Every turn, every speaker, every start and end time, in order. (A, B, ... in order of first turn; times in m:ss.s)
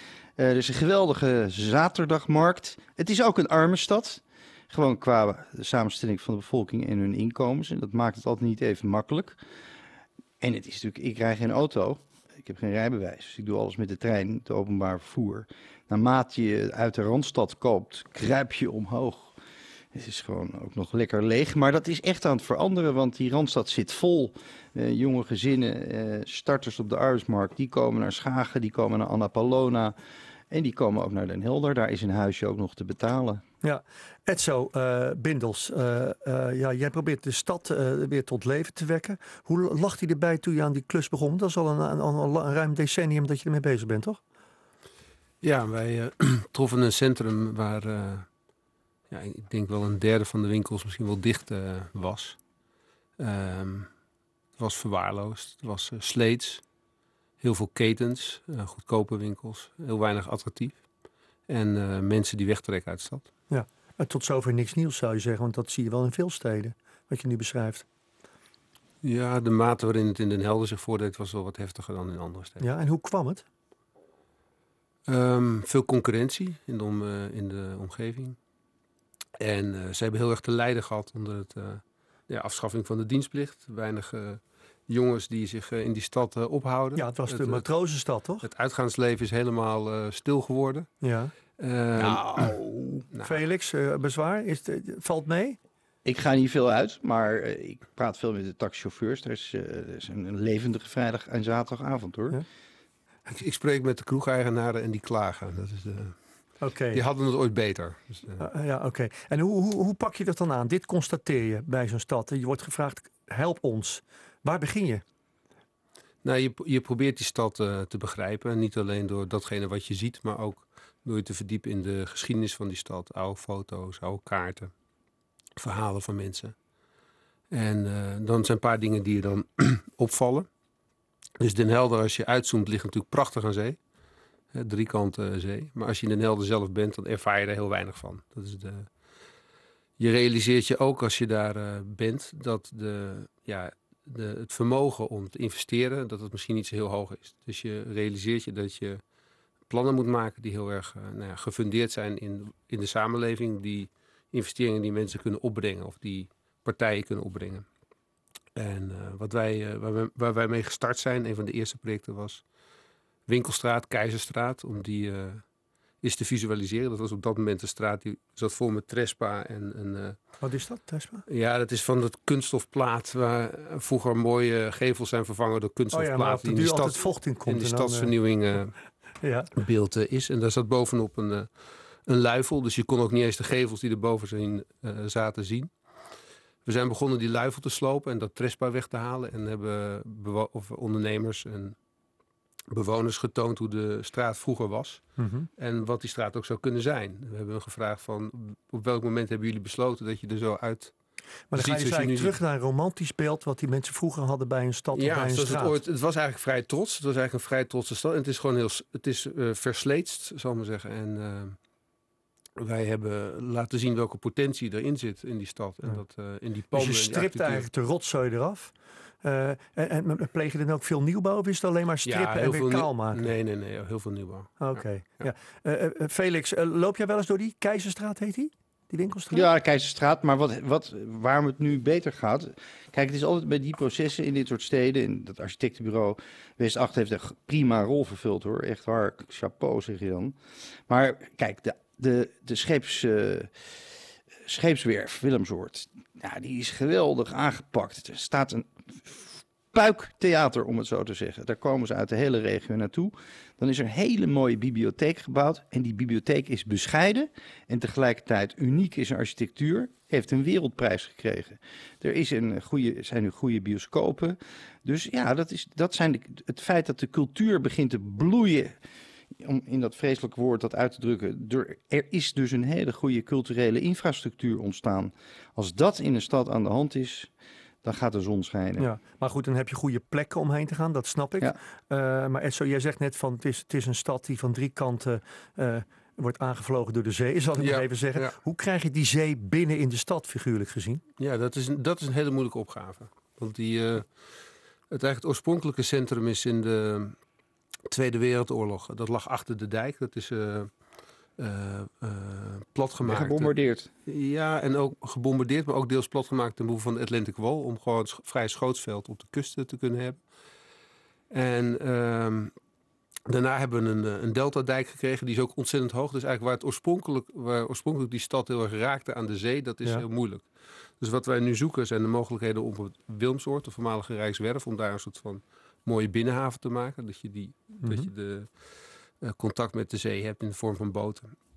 0:00.4-0:09.4 A
0:10.4-0:19.4 A
0:19.9-0:29.9 A
0:30.5-0:33.4 A
0:33.6-0:44.2 B
0:45.4-0:48.3 C
0:49.1-0:52.4 C
0:53.2-0:54.0 C
0:54.5-0:56.6 C
0:57.4-1:00.9 C
1:01.5-1:03.3 C
1:03.5-1:07.8 B
1:09.0-1:12.7 C
1:12.6-1:13.4 B
1:15.1-1:18.4 C
1:19.4-1:30.9 C
1:27.0-1:28.4 B
1:31.0-1:31.3 B
1:31.5-1:33.4 C
1:32.0-1:32.6 B
1:33.2-1:35.6 B
1:36.0-1:42.4 A
1:43.3-1:48.4 C
1:46.6-1:47.0 B
1:48.4-1:55.0 B
1:56.2-2:04.7 C
2:05.6-2:06.6 C
2:07.5-2:10.5 C
2:11.4-2:13.8 C
2:14.5-2:19.0 C
2:20.0-2:29.0 C
2:29.7-2:37.6 C
2:38.5-2:42.5 C
2:43.2-2:50.4 C
2:50.4-2:51.2 B
2:51.3-2:58.8 C
2:55.9-2:58.6 B
2:59.2-2:59.5 B
2:59.5-3:05.8 C
3:06.6-3:11.8 C
3:12.7-3:21.0 C
3:15.1-3:15.5 B
3:21.5-3:25.8 B
3:21.5-3:22.4 C
3:24.9-3:31.7 C
3:32.6-3:37.7 C
3:36.7-3:43.3 B
3:42.0-3:45.3 C
3:44.6-3:49.4 B
3:49.3-4:00.4 A
4:00.9-4:03.5 A
4:04.4-4:28.8 A
4:29.4-4:37.3 A
4:37.8-4:38.9 A
4:38.8-4:51.0 B
4:47.6-4:48.4 C
4:51.2-4:57.2 C
4:57.9-5:00.8 C
5:01.4-5:03.5 C
5:03.0-5:03.9 A
5:04.0-5:10.3 C
5:11.3-5:12.5 C
5:13.3-5:31.3 C
5:27.8-5:28.1 B